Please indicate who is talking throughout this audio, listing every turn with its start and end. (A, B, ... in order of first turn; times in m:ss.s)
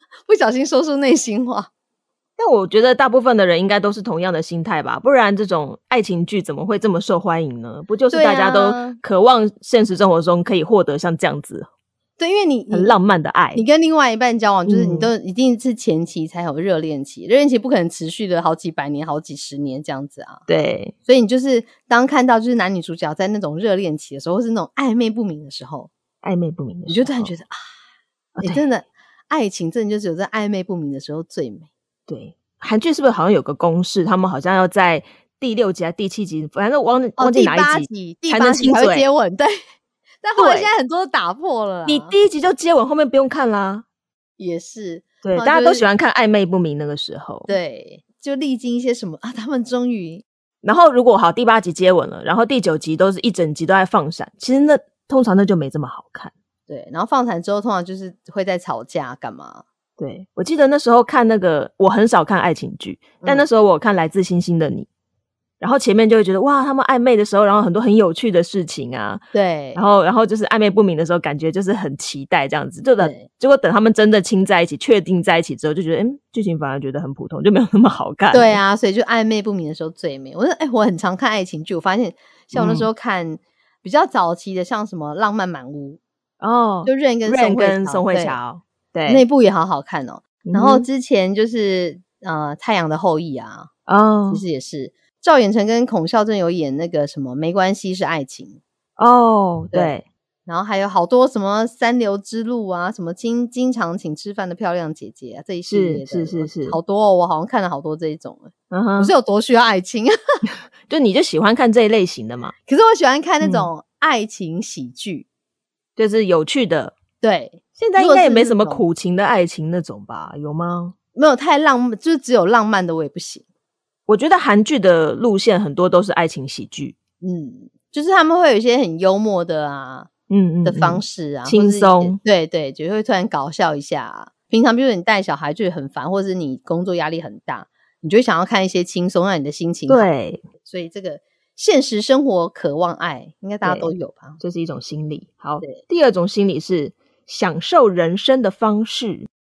0:00.3-0:01.7 A
0:02.4-0:11.7 B
0:08.1-0:09.0 A
0:12.2-0:13.0 A
0:12.7-0:13.6 B
0:13.5-0:20.4 A
0:14.7-0:15.1 B
0:20.5-0:20.9 B
0:21.1-0:25.9 A
0:26.2-0:27.3 B
0:26.9-0:27.6 A
0:28.4-0:28.6 B
0:28.4-0:31.7 A
0:32.1-0:39.1 B
0:37.2-0:39.6 A
0:40.2-0:42.2 A
0:40.4-0:40.7 B
0:41.9-0:43.8 B
0:44.4-0:45.8 A
0:45.2-0:47.5 B
0:47.5-0:50.2 A
0:50.6-0:56.3 B
0:56.7-0:59.6 A
1:00.0-1:04.9 B
1:05.6-1:09.2 B
1:09.3-1:09.8 A
1:09.8-1:18.6 B
1:13.0-1:13.3 A
1:18.3-1:26.0 A
1:22.5-1:22.9 B
1:26.4-1:29.2 B
1:26.9-1:28.4 A
1:29.1-1:33.7 A
1:30.4-1:30.9 B
1:33.9-1:34.4 B
1:34.3-1:38.6 A
1:39.0-1:40.0 B
1:40.5-1:50.1 A
1:45.7-1:46.8 B
1:48.7-1:49.1 B
1:50.9-1:52.5 B
1:52.7-1:55.3 A
1:53.4-1:53.7 B
1:56.0-1:57.0 B
1:57.2-1:58.8 A
1:57.8-2:01.0 B
2:01.2-2:03.4 A
2:04.1-2:07.0 B
2:07.2-2:10.1 A
2:10.3-2:12.2 B
2:10.6-2:20.1 A
2:19.9-2:20.4 B
2:20.6-2:24.4 A
2:23.6-2:29.3 B